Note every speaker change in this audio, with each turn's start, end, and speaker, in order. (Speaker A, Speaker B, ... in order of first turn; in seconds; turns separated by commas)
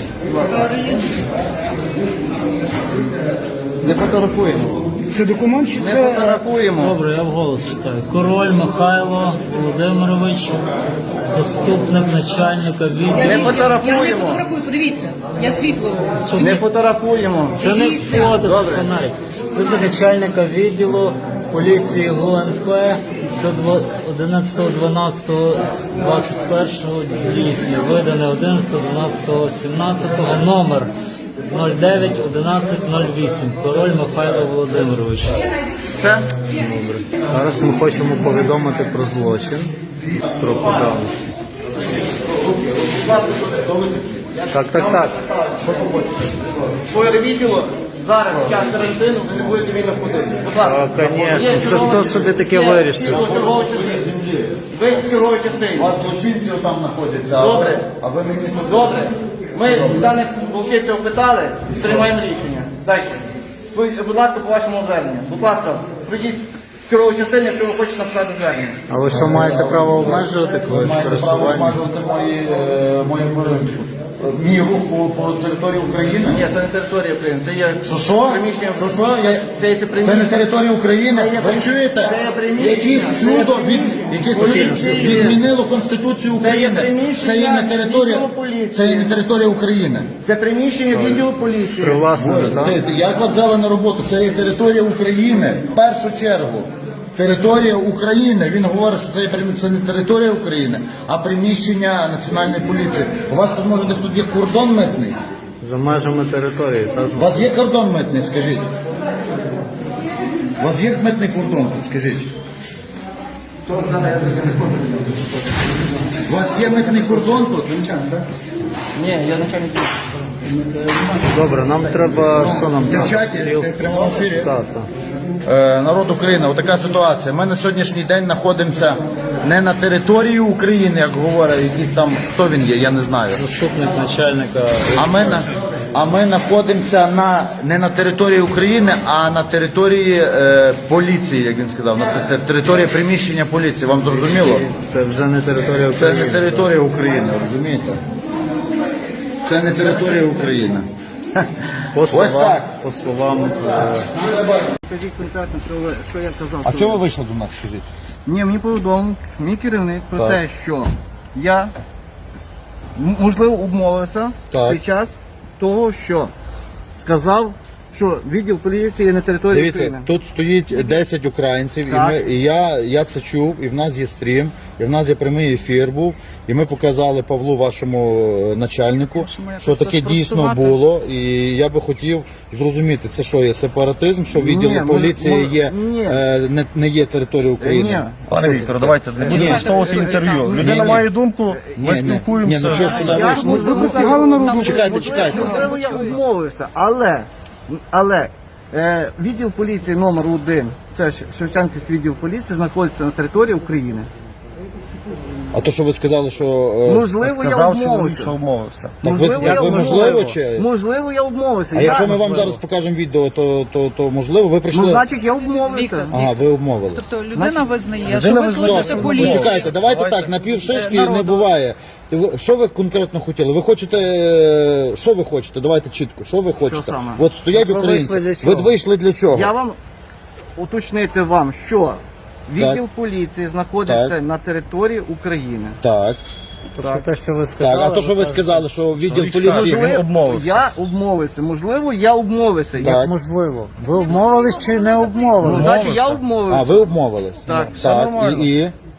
Speaker A: 0.3-1.0, Speaker A: 3.8-4.9, Speaker B: 5.1-6.4, Speaker A: 5.8-7.0, Speaker C: 6.8-10.7, Speaker C: 11.3-13.6, Speaker A: 13.2-14.6, Speaker C: 16.2-16.6, Speaker A: 16.4-17.7, Speaker C: 17.6-30.9, Speaker A: 18.4-18.9, Speaker C: 31.5-35.4, Speaker A: 36.0-36.3, Speaker C: 36.4-41.3, Speaker D: 40.4-40.9, Speaker D: 41.9-46.9, Speaker C: 44.5-45.1, Speaker A: 46.9-54.0, Speaker D: 49.3-49.6, Speaker C: 50.6-53.3, Speaker D: 51.0-52.1, Speaker D: 53.0-54.7, Speaker A: 54.7-56.0, Speaker D: 55.7-59.0, Speaker A: 57.4-57.9, Speaker A: 58.7-68.8, Speaker D: 59.5-60.1, Speaker D: 61.8-62.0, Speaker C: 68.9-71.8, Speaker D: 69.1-76.5, Speaker A: 76.2-80.5, Speaker D: 77.8-79.4, Speaker D: 80.0-90.1, Speaker A: 81.1-85.4, Speaker C: 84.4-85.4, Speaker A: 86.4-89.2, Speaker A: 90.2-92.1, Speaker C: 90.9-91.3, Speaker C: 91.8-92.8, Speaker D: 92.1-105.2, Speaker C: 105.6-107.5, Speaker D: 107.1-108.7, Speaker D: 110.6-112.3, Speaker A: 113.7-115.3, Speaker D: 116.3-117.8, Speaker A: 116.7-118.2, Speaker A: 119.0-121.1, Speaker C: 121.2-124.9, Speaker D: 122.8-124.5, Speaker D: 125.5-133.5, Speaker C: 133.3-135.5, Speaker D: 134.9-144.7, Speaker C: 144.1-146.7, Speaker D: 145.9-148.0, Speaker D: 149.4-152.8, Speaker C: 151.9-154.1, Speaker D: 153.8-154.7, Speaker A: 154.8-157.0, Speaker D: 156.6-157.8, Speaker A: 158.3-161.7, Speaker A: 163.0-166.3, Speaker D: 164.5-164.8, Speaker A: 167.0-170.1, Speaker D: 169.5-188.7, Speaker A: 171.9-172.3, Speaker E: 179.1-180.8, Speaker A: 184.3-186.2, Speaker A: 187.6-189.6, Speaker F: 188.3-193.7, Speaker E: 189.2-190.9, Speaker D: 189.3-189.8, Speaker D: 190.4-191.1, Speaker A: 190.8-191.8, Speaker D: 191.8-193.9, Speaker E: 192.7-196.2, Speaker A: 192.8-204.1, Speaker B: 193.9-194.8, Speaker D: 194.5-196.2, Speaker D: 205.5-207.1, Speaker A: 206.8-208.4, Speaker F: 207.2-209.5, Speaker A: 209.0-212.3, Speaker D: 209.0-210.7, Speaker C: 209.4-210.4, Speaker D: 211.7-215.1, Speaker C: 211.9-212.6, Speaker F: 212.3-212.6, Speaker A: 214.7-216.2, Speaker E: 215.4-216.4, Speaker D: 216.1-217.1, Speaker E: 216.9-219.8, Speaker F: 218.0-220.7, Speaker D: 218.6-229.5, Speaker E: 220.7-221.5, Speaker A: 226.6-227.2, Speaker C: 227.5-228.8, Speaker A: 229.3-229.8, Speaker A: 230.6-235.8, Speaker D: 233.8-234.2, Speaker D: 235.8-236.2, Speaker C: 236.8-238.6, Speaker A: 236.8-237.0, Speaker D: 237.6-239.9, Speaker F: 239.0-240.7, Speaker A: 239.5-243.0, Speaker D: 242.8-243.1, Speaker C: 242.9-245.8, Speaker F: 245.4-246.2, Speaker A: 245.4-246.9, Speaker D: 246.5-248.7, Speaker A: 247.5-247.8, Speaker F: 247.5-248.5